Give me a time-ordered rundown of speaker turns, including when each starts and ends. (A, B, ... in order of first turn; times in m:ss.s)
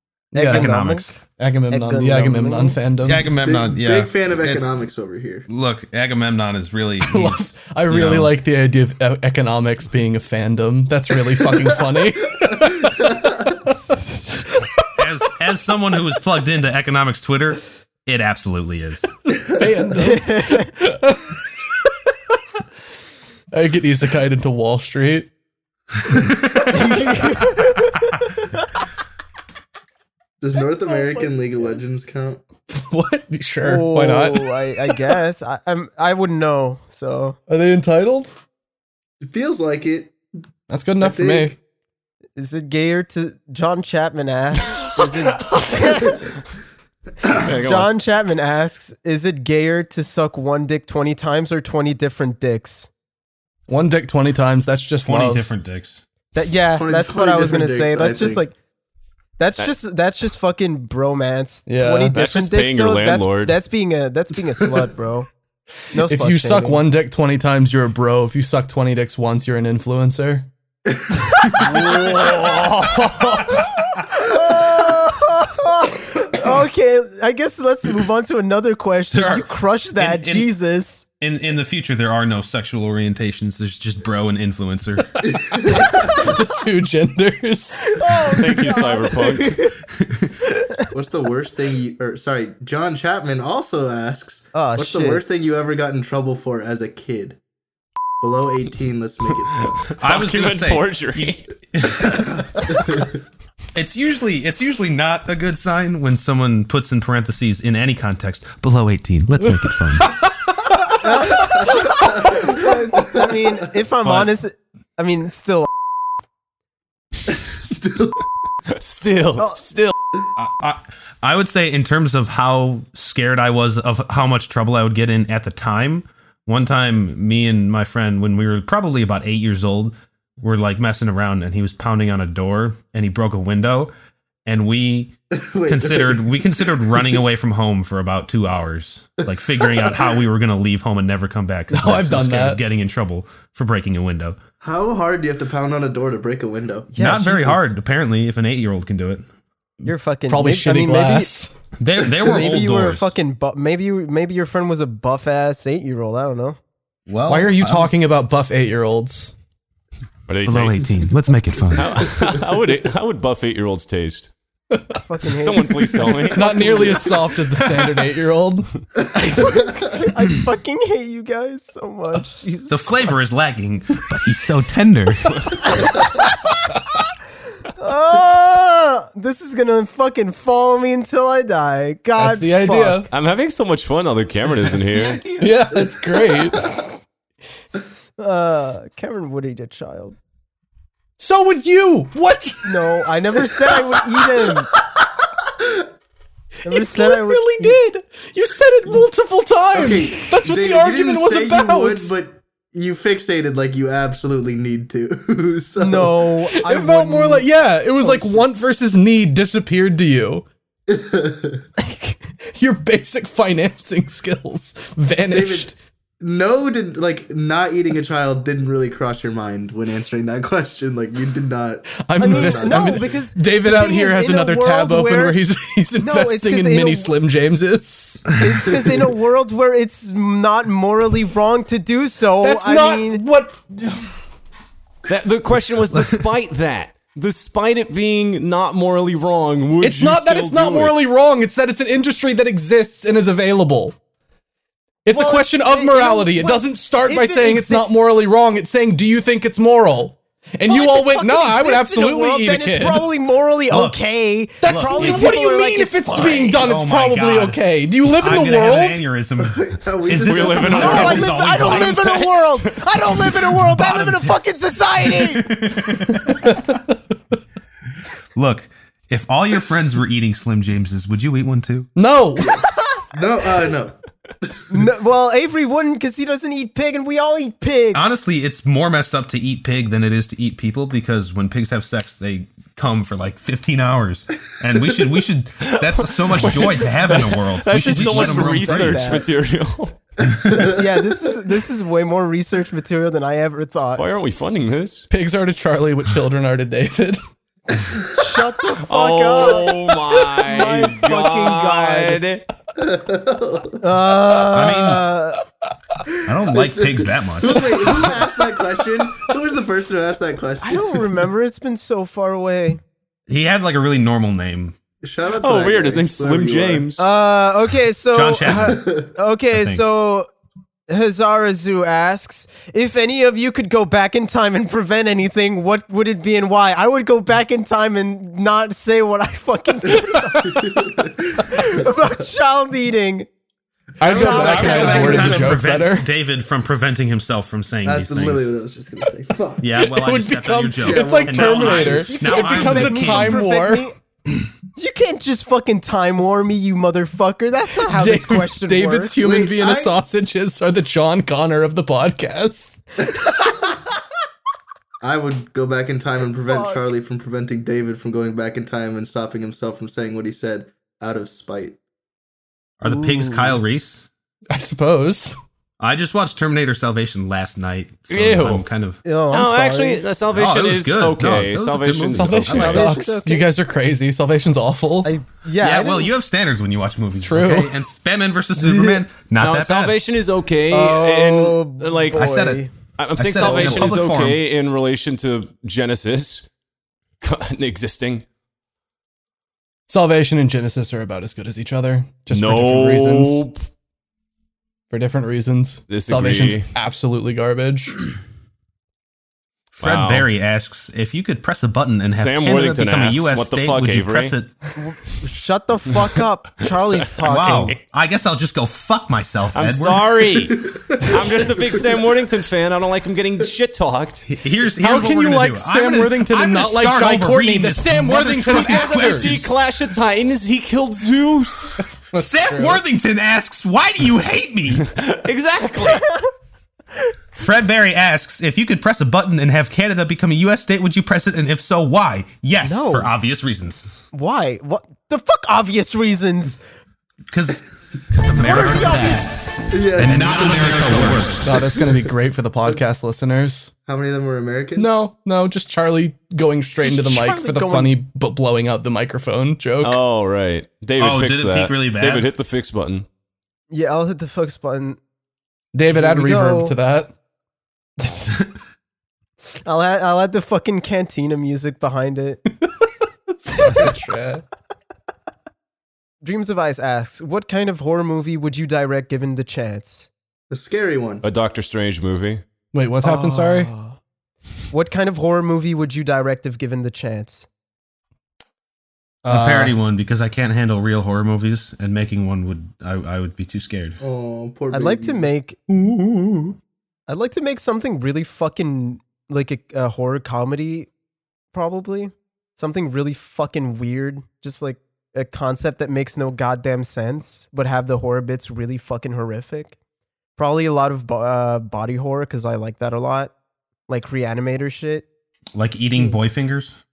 0:00.3-0:03.3 A
0:00.3-0:01.2 B
0:00.4-0:01.2 C
0:01.7-0:02.8 B
0:03.0-0:04.7 C
0:03.4-0:05.5 D
0:05.5-0:08.3 C
0:07.0-0:13.9 A
0:15.0-0:19.1 C
0:19.4-0:21.4 A
0:20.0-0:20.7 B
0:23.5-0:25.3 A
0:26.7-0:27.4 A
0:27.2-0:27.7 B
0:30.4-0:32.4 D
0:30.8-0:31.3 B
0:32.7-0:35.1 A
0:33.6-0:37.4 B
0:37.5-0:38.3 A
0:39.2-0:40.2 D
0:40.7-0:41.6 A
0:41.0-0:41.6 D
0:42.4-0:46.4 B
0:47.3-0:47.9 E
0:47.4-0:52.9 B
0:53.7-0:55.5 A
0:55.0-0:56.0 C
0:56.3-0:58.6 B
0:56.7-0:58.5 D
0:59.4-1:05.3 B
1:01.7-1:02.2 A
1:02.1-1:03.6 E
1:05.9-1:06.8 B
1:06.0-1:10.5 A
1:11.6-1:13.6 E
1:14.1-1:21.0 B
1:20.0-1:20.5 C
1:21.2-1:25.4 C
1:25.4-1:26.2 D
1:25.6-1:28.2 A
1:27.8-1:29.7 B
1:28.2-1:29.7 E
1:30.9-1:37.4 D
1:34.5-1:35.2 B
1:38.2-1:39.7 D
1:39.6-1:41.5 E
1:40.0-1:42.8 C
1:42.7-1:43.1 D
1:43.8-1:50.2 C
1:49.4-1:51.3 A
1:51.0-1:55.7 B
1:51.4-1:53.6 D
1:57.4-1:58.2 D
1:58.7-2:00.0 E
1:59.4-1:59.6 B
2:00.4-2:13.9 C
2:14.5-2:15.2 C
2:15.3-2:17.0 D
2:15.7-2:24.4 C
2:19.7-2:20.1 D
2:21.7-2:22.6 A
2:24.6-2:26.9 D
2:26.9-2:27.7 B
2:27.0-2:29.2 C
2:29.8-2:31.3 B
2:30.3-2:31.6 A
2:31.8-2:33.1 C
2:32.2-2:36.6 B
2:37.1-2:37.9 C
2:37.3-2:39.3 A
2:40.3-2:40.9 E
2:40.4-2:42.2 C
2:41.7-2:44.3 E
2:44.9-2:47.1 B
2:45.3-2:46.9 E
2:46.3-2:48.7 A
2:49.2-2:52.7 B
2:52.7-2:55.6 C
2:55.9-2:56.3 B
2:57.6-3:03.1 B
3:02.2-3:03.1 A
3:03.1-3:05.2 E
3:04.8-3:05.6 C
3:05.4-3:06.7 A
3:08.2-3:10.2 B
3:11.2-3:13.0 A
3:12.6-3:14.7 B
3:16.6-3:17.8 B
3:16.7-3:22.1 A
3:19.7-3:26.3 D
3:25.8-3:27.5 B
3:26.5-3:30.5 A
3:28.0-3:28.4 B
3:30.9-3:31.6 D
3:31.8-3:32.2 B
3:32.4-3:35.8 A
3:35.3-3:43.1 D
3:42.0-3:48.4 A
3:42.2-3:45.4 B
3:46.0-3:47.1 B
3:48.4-3:53.2 B
3:52.4-3:54.2 A
3:55.1-4:01.0 E
3:59.8-4:04.0 A
4:05.0-4:13.1 A
4:05.1-4:07.9 B
4:10.7-4:16.6 B
4:13.7-4:14.0 C
4:14.6-4:19.0 A
4:14.6-4:15.3 C
4:16.2-4:22.0 C
4:19.4-4:21.2 D
4:20.2-4:23.3 E
4:20.7-4:25.6 B
4:23.6-4:24.4 C
4:25.0-4:26.6 C
4:26.1-4:27.0 A
4:28.4-4:31.9 C
4:32.0-4:32.6 A
4:33.1-4:34.0 D
4:34.7-4:38.0 B
4:37.9-4:49.2 C
4:45.6-4:50.0 E
4:46.6-4:49.3 B
4:50.4-4:50.8 D
4:50.5-4:54.0 B
4:54.0-4:55.1 E
4:55.1-4:57.2 A
4:58.0-5:02.2 B
4:58.8-5:02.5 E
5:02.8-5:03.8 D
5:03.8-5:05.4 B
5:04.5-5:05.1 C
5:06.2-5:08.1 C
5:06.6-5:11.0 D
5:10.6-5:12.8 B
5:13.3-5:14.8 C
5:15.0-5:16.9 D
5:15.4-5:17.0 E
5:17.0-5:20.3 B
5:18.1-5:18.9 C
5:18.7-5:19.1 D
5:19.5-5:19.8 C
5:20.9-5:33.3 B
5:30.4-5:31.6 D
5:34.0-5:36.1 A
5:34.0-5:35.5 B
5:34.1-5:35.6 D
5:34.3-5:38.5 C
5:37.8-5:39.8 D
5:39.6-5:43.4 C
5:39.8-5:43.9 A
5:40.8-5:42.1 D
5:42.0-5:44.0 B
5:44.8-5:49.3 B
5:47.8-5:52.8 A
5:49.2-5:50.0 D
5:55.0-6:01.8 D
5:56.4-5:56.8 B
6:02.8-6:04.1 C
6:02.8-6:03.6 B
6:04.5-6:05.4 A
6:05.8-6:09.0 C
6:08.1-6:08.7 E
6:09.0-6:10.0 B
6:09.3-6:12.8 E
6:10.3-6:12.9 C
6:12.1-6:15.1 A
6:12.5-6:13.5 B
6:15.0-6:16.1 B
6:15.6-6:20.0 C
6:17.2-6:17.8 A
6:19.4-6:22.4 E
6:20.7-6:22.7 B
6:22.1-6:22.6 C
6:23.0-6:26.5 E
6:23.2-6:24.4 C
6:23.4-6:23.9 B
6:27.2-6:28.2 E
6:29.9-6:33.4 A
6:32.3-6:33.6 E
6:34.9-6:38.0 A
6:35.9-6:36.7 E
6:39.7-6:44.6 C
6:39.8-6:40.3 E
6:42.1-6:44.4 E
6:44.8-6:47.8 B
6:46.7-6:47.8 E
6:47.2-6:50.1 C
6:49.5-6:54.3 E
6:50.5-6:51.2 D
6:54.3-6:59.6 C
6:54.8-6:59.5 A
6:58.5-7:01.8 E
7:02.0-7:02.8 A
7:02.2-7:04.9 C
7:04.9-7:06.1 E
7:06.0-7:06.3 B
7:07.4-7:13.9 C
7:12.6-7:13.1 B
7:14.1-7:16.6 B
7:17.3-7:21.6 C
7:18.3-7:19.5 B
7:19.7-7:21.3 D
7:21.4-7:23.7 A
7:23.8-7:24.9 D
7:24.8-7:30.0 A
7:26.8-7:28.0 B
7:29.8-7:33.1 E
7:31.0-7:32.3 C
7:33.7-7:35.0 B
7:35.7-7:37.1 A
7:35.9-7:36.8 B
7:39.6-7:42.4 B
7:43.4-7:44.4 A
7:46.2-7:50.1 B
7:50.5-7:51.2 D
7:51.2-7:52.4 E
7:52.7-7:53.7 A
7:53.0-7:54.0 B
7:54.7-7:57.5 B
7:59.2-7:59.8 A
7:59.3-8:04.0 C
8:04.0-8:05.3 D
8:04.7-8:06.5 B
8:07.1-8:10.9 B
8:11.5-8:19.8 B
8:20.4-8:23.3 B
8:23.9-8:25.1 B
8:25.6-8:26.8 C